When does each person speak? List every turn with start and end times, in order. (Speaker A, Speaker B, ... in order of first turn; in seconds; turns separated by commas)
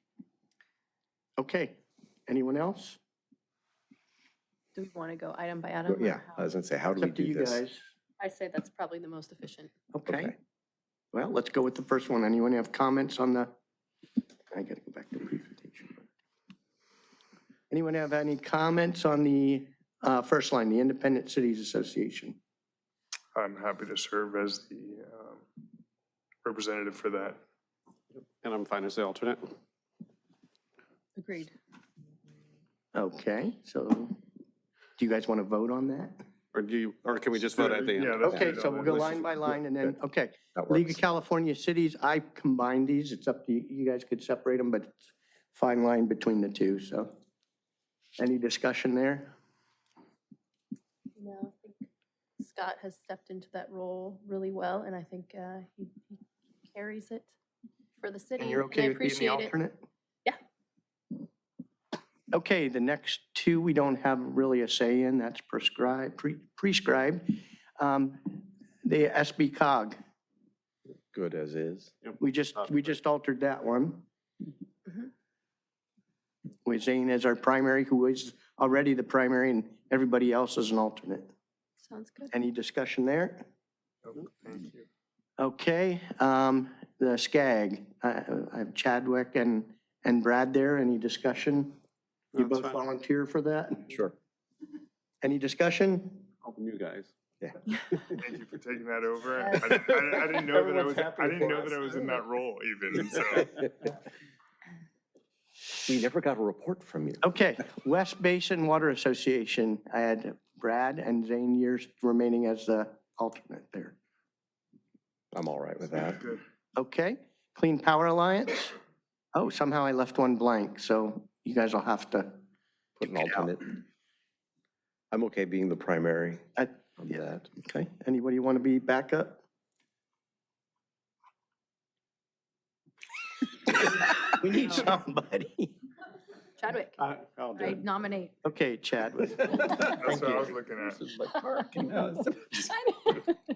Speaker A: 1.4-3.0, Speaker B: 4.8-6.5, Speaker C: 5.9-7.6, Speaker A: 7.0-7.8, Speaker B: 8.2-9.7, Speaker A: 9.9-10.4, Speaker C: 10.1-10.3, Speaker A: 11.1-13.5, Speaker A: 14.5-16.0, Speaker A: 17.7-22.4, Speaker D: 23.4-25.4, Speaker D: 26.4-27.4, Speaker E: 28.1-29.5, Speaker B: 31.2-31.5, Speaker A: 32.9-34.2, Speaker A: 35.0-36.2, Speaker E: 36.5-39.2, Speaker D: 37.5-39.1, Speaker A: 38.2-47.1, Speaker C: 40.5-41.0, Speaker A: 48.2-49.3, Speaker B: 51.2-51.9, Speaker B: 52.4-57.3, Speaker B: 58.0-59.5, Speaker A: 58.4-59.8, Speaker A: 62.3-70.0, Speaker C: 71.1-71.9, Speaker A: 72.2-74.1, Speaker A: 76.7-81.3, Speaker B: 81.8-82.3, Speaker A: 82.3-83.5, Speaker D: 84.0-84.8, Speaker A: 85.4-91.8, Speaker E: 92.3-92.8, Speaker A: 92.3-93.9, Speaker C: 93.9-94.2, Speaker A: 95.2-96.3, Speaker E: 96.4-97.1, Speaker D: 98.2-103.6, Speaker E: 100.5-101.9, Speaker C: 105.9-107.2, Speaker A: 107.2-114.0, Speaker C: 115.3-116.2, Speaker D: 116.0-116.4, Speaker A: 116.8-118.8, Speaker A: 119.3-122.4, Speaker C: 123.0-123.8, Speaker A: 123.1-123.5, Speaker C: 125.1-126.5, Speaker A: 126.6-129.4, Speaker C: 127.0-127.4, Speaker A: 134.5-135.7, Speaker B: 136.6-138.3, Speaker A: 138.4-140.2, Speaker B: 139.5-140.1, Speaker D: 140.0-141.0, Speaker C: 140.1-140.5, Speaker B: 141.2-143.4